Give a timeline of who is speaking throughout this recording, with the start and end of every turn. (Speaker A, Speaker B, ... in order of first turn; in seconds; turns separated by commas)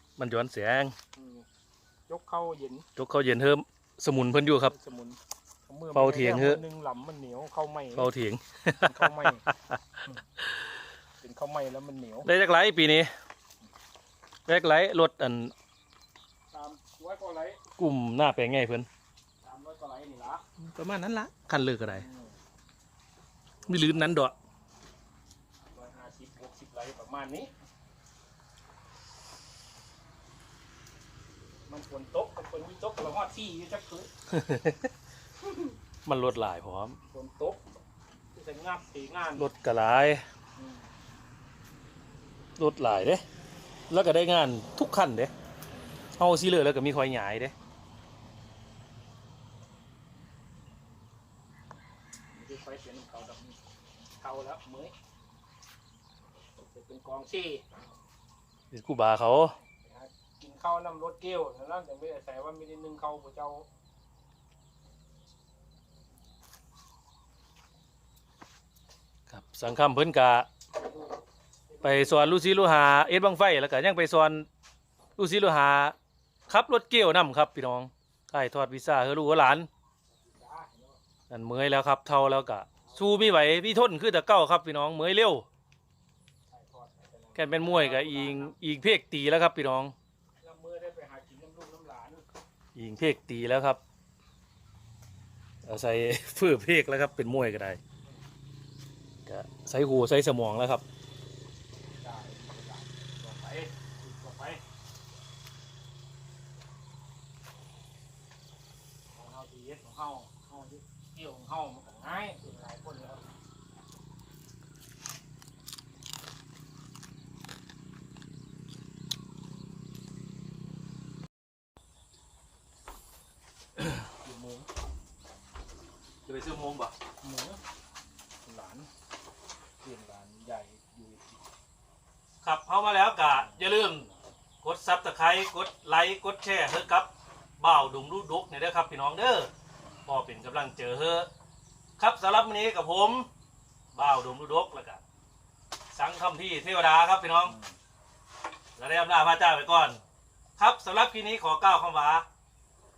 Speaker A: 0.2-0.9, Speaker B: 1.1-1.4, Speaker B: 2.1-2.9, Speaker A: 3.0-4.7, Speaker B: 4.7-8.1, Speaker A: 5.9-6.6, Speaker A: 7.9-10.0, Speaker B: 8.8-9.4, Speaker B: 11.2-12.3, Speaker A: 12.2-13.1, Speaker A: 14.4-15.5, Speaker B: 16.5-17.6, Speaker A: 17.8-18.9, Speaker B: 19.4-20.4, Speaker A: 20.6-22.1, Speaker B: 21.8-22.4, Speaker A: 23.7-24.3, Speaker B: 23.7-24.1, Speaker B: 25.7-27.5, Speaker B: 31.7-34.1, Speaker A: 34.3-34.9, Speaker B: 35.5-35.7, Speaker A: 36.0-37.0, Speaker B: 37.1-37.6, Speaker B: 38.3-39.5, Speaker A: 39.4-40.2, Speaker B: 40.6-40.9, Speaker A: 42.6-43.2, Speaker A: 43.9-45.3, Speaker A: 46.1-47.5, Speaker B: 52.3-53.6, Speaker B: 54.2-54.9, Speaker B: 56.6-57.6, Speaker A: 58.7-59.5, Speaker B: 59.8-63.6, Speaker A: 69.3-70.5, Speaker B: 70.8-71.2, Speaker B: 71.7-72.4, Speaker A: 71.8-74.5, Speaker A: 75.2-75.9, Speaker A: 76.5-79.7, Speaker B: 80.1-81.0, Speaker A: 81.3-85.5, Speaker B: 82.8-83.4, Speaker B: 86.5-88.6, Speaker A: 87.3-89.9, Speaker B: 90.4-92.2, Speaker A: 92.7-93.8, Speaker A: 95.6-97.8, Speaker A: 99.2-100.8, Speaker B: 102.0-104.6, Speaker B: 109.1-113.3, Speaker B: 123.9-124.7, Speaker A: 126.2-126.9, Speaker B: 127.2-127.6, Speaker B: 128.4-128.9, Speaker B: 129.8-131.4, Speaker A: 132.4-134.1, Speaker B: 133.4-134.1, Speaker A: 134.6-139.5, Speaker A: 140.1-141.3, Speaker A: 142.0-143.3, Speaker A: 143.9-145.0, Speaker A: 145.9-147.5, Speaker B: 147.4-147.8, Speaker A: 148.8-150.0, Speaker A: 150.6-152.2